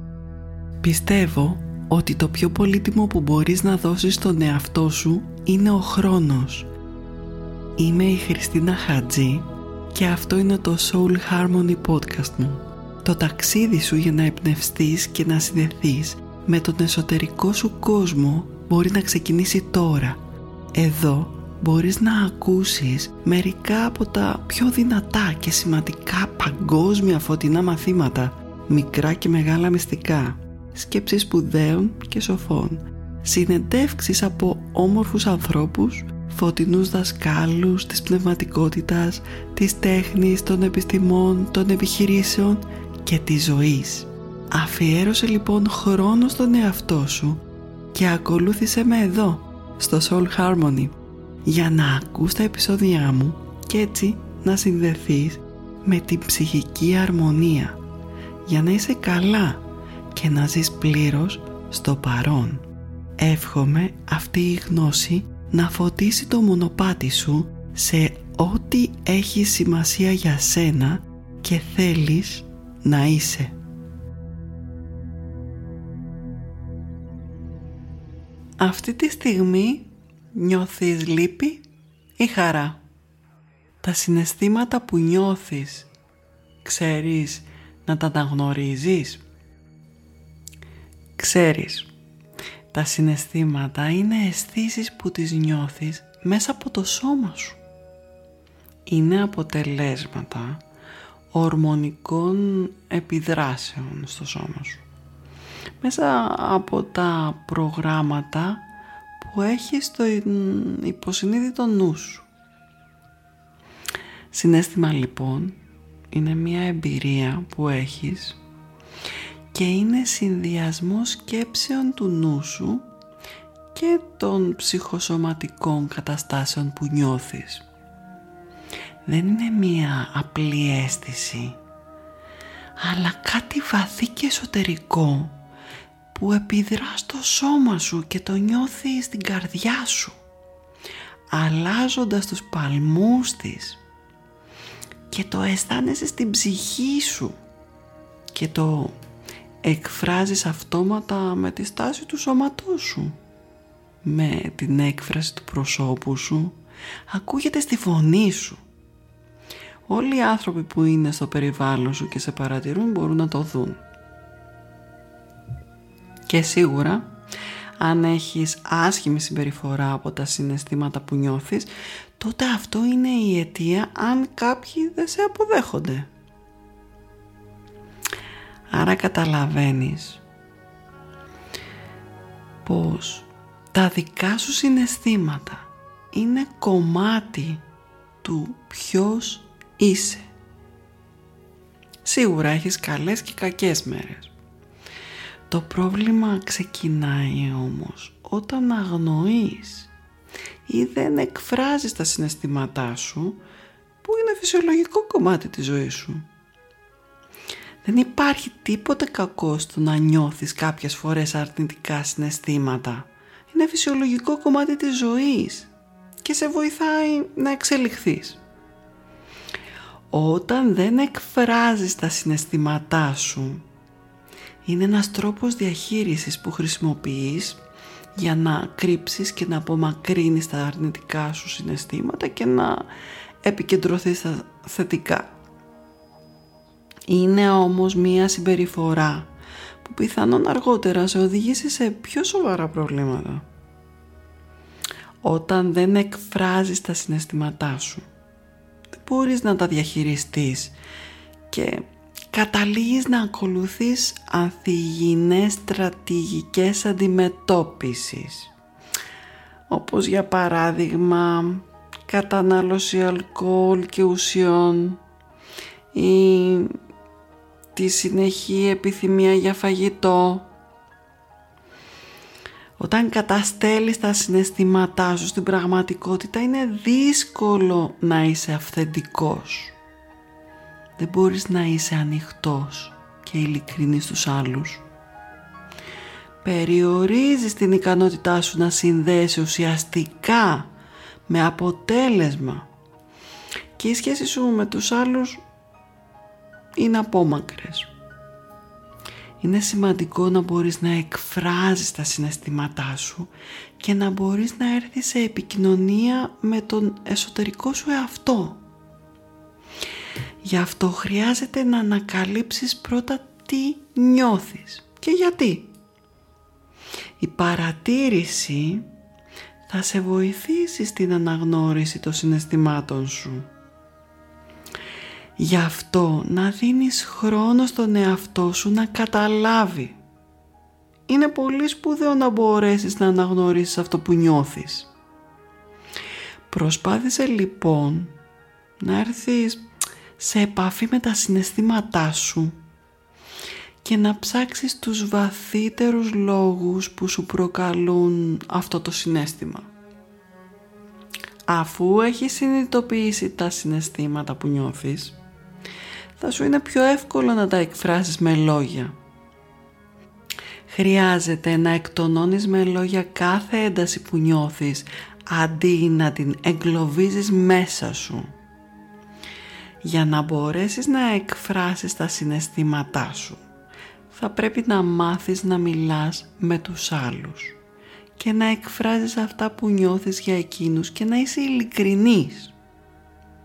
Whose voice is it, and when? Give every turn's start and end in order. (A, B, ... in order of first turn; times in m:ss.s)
0:00.8-0:06.7 A
0:07.8-0:20.2 A
0:20.7-0:57.8 A
0:58.4-1:02.7 A
1:03.2-1:13.6 A
1:18.6-1:21.6 A
1:22.2-1:22.8 A
1:23.8-1:25.9 A
1:26.6-1:29.2 A
1:31.2-1:31.9 A
1:32.7-1:37.6 A
1:38.9-1:40.6 A
1:41.3-1:44.8 A
1:45.8-1:48.6 A
1:49.2-1:52.3 A
1:54.3-1:55.6 A
1:56.1-1:58.4 A
1:59.5-2:02.9 A
2:03.7-2:07.6 A
2:09.1-2:11.6 A
2:12.8-2:15.4 A
2:16.1-2:20.2 A
2:21.3-2:23.8 A
2:25.1-2:27.4 A
2:28.3-2:29.0 A
2:29.6-2:33.2 A
2:34.0-2:36.6 A
2:37.1-2:38.6 A
2:39.9-2:43.8 A
2:46.3-2:47.1 A
2:47.8-2:56.1 A
2:58.7-3:00.2 A
3:02.6-3:07.6 A
3:08.2-3:10.3 A
3:12.0-3:14.3 A
3:15.5-3:19.9 A
3:20.7-3:23.4 A
3:24.0-3:26.2 A
3:27.8-3:35.7 A
3:36.2-3:38.4 A
3:40.1-3:43.6 A
3:44.6-3:47.6 A
3:48.2-3:52.9 A
3:53.4-3:55.4 A
3:57.1-3:59.3 A
3:59.8-4:03.5 A
4:05.2-4:08.0 A
4:09.0-4:10.8 A
4:11.5-4:18.5 A
4:19.7-4:25.0 A
4:25.9-4:26.7 A
4:27.7-4:30.5 A
4:32.8-4:39.8 A
4:41.0-4:44.8 A
4:46.4-4:50.7 A
4:51.3-4:52.7 A
4:53.8-4:55.4 A
4:56.8-4:57.9 A
4:59.4-5:08.6 A
5:10.4-5:15.7 A
5:17.2-5:18.9 A
5:19.7-5:23.5 A
5:25.4-5:30.0 A
5:31.1-5:34.9 A
5:36.5-5:38.2 A
5:38.8-5:39.6 A
5:40.2-5:42.6 A
5:43.8-5:49.7 A
5:51.5-5:55.2 A
5:56.2-5:59.0 A
6:00.7-6:08.3 A
6:09.8-6:13.4 A
6:14.1-6:17.6 A
6:18.2-6:22.5 A